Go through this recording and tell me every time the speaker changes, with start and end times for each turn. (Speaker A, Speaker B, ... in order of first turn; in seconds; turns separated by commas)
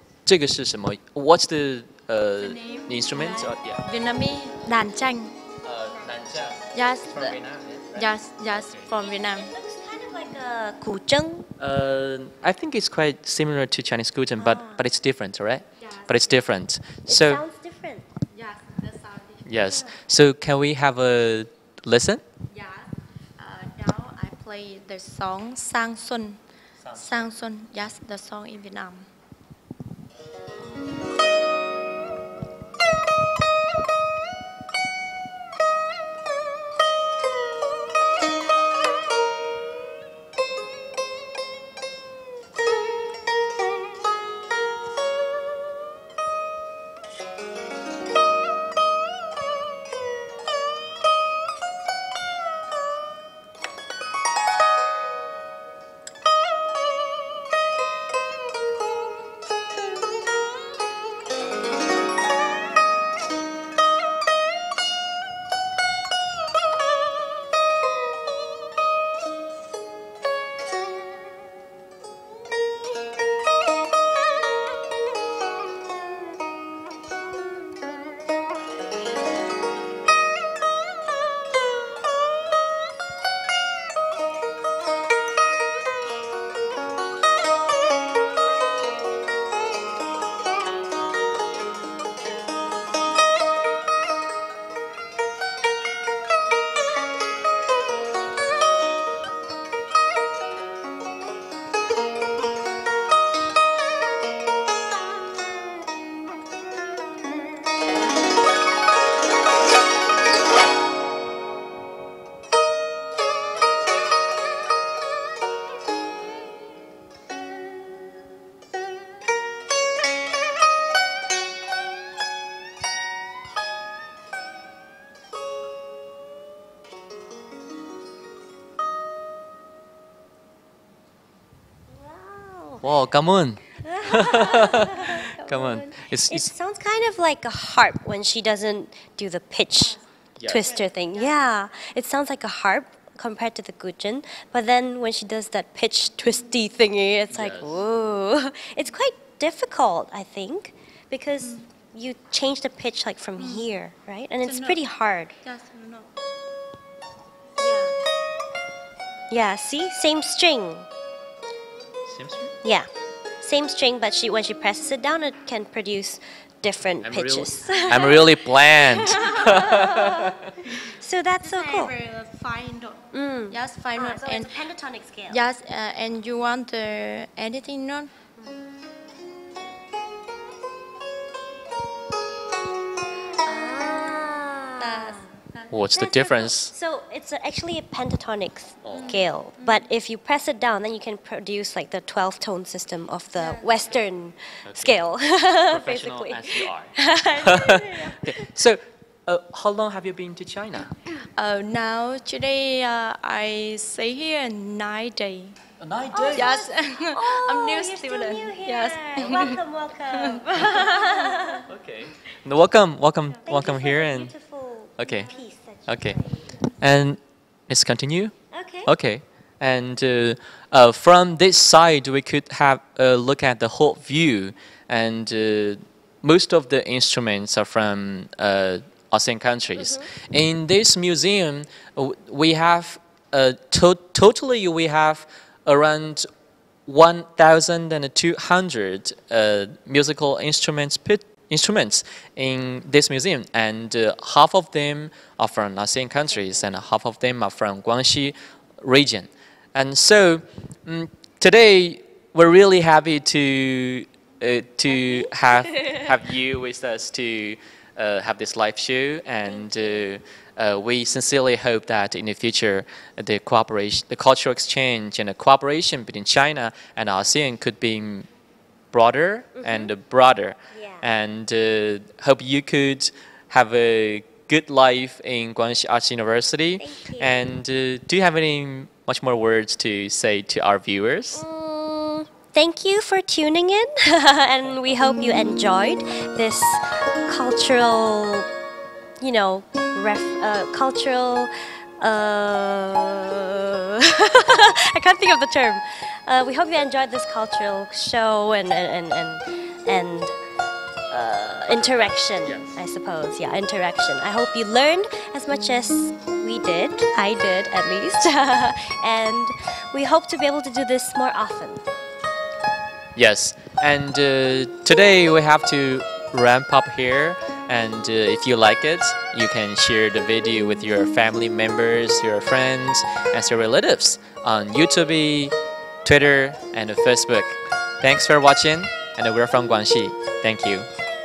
Speaker A: 0.2-3.8, Speaker B: 2.4-5.3, Speaker A: 5.6-8.9, Speaker B: 6.7-7.4, Speaker B: 7.9-9.5, Speaker C: 8.9-11.5, Speaker A: 11.6-17.4, Speaker C: 14.4-14.8, Speaker B: 15.8-16.4, Speaker C: 17.1-18.1, Speaker B: 18.3-19.4, Speaker A: 19.4-22.2, Speaker C: 19.6-19.9, Speaker B: 22.5-26.4, Speaker A: 26.8-27.3, Speaker B: 26.9-29.1, Speaker C: 131.9-132.8, Speaker A: 132.8-136.5, Speaker C: 133.8-155.3, Speaker B: 139.8-141.4, Speaker A: 140.4-140.8, Speaker A: 147.3-147.8, Speaker B: 153.4-153.7, Speaker B: 154.4-154.8, Speaker B: 155.4-156.1, Speaker B: 157.6-157.9, Speaker C: 159.3-160.9, Speaker A: 162.1-162.5, Speaker C: 162.6-162.9, Speaker C: 163.4-171.9, Speaker A: 167.0-170.6, Speaker B: 171.4-174.6, Speaker C: 173.1-175.4, Speaker B: 175.3-178.1, Speaker C: 183.3-185.3, Speaker B: 184.8-185.7, Speaker A: 185.7-186.7, Speaker C: 185.9-198.5, Speaker A: 188.8-189.2, Speaker B: 188.9-189.9, Speaker B: 193.4-194.0, Speaker A: 194.6-195.0, Speaker A: 195.6-200.9, Speaker B: 201.3-205.6, Speaker A: 205.8-206.7, Speaker C: 206.1-211.7, Speaker B: 206.3-211.6, Speaker A: 211.7-214.3, Speaker C: 213.4-216.6, Speaker A: 215.0-215.3, Speaker A: 215.9-216.2, Speaker A: 216.8-236.3, Speaker C: 218.5-218.9, Speaker C: 229.8-230.1, Speaker A: 236.8-268.3, Speaker C: 254.9-256.1, Speaker C: 259.4-260.1, Speaker A: 268.9-281.4, Speaker C: 269.6-269.9, Speaker C: 270.7-271.1, Speaker C: 276.8-277.4, Speaker C: 281.3-288.5, Speaker C: 289.2-300.3, Speaker C: 301.1-311.9, Speaker A: 301.8-302.8, Speaker A: 313.1-330.9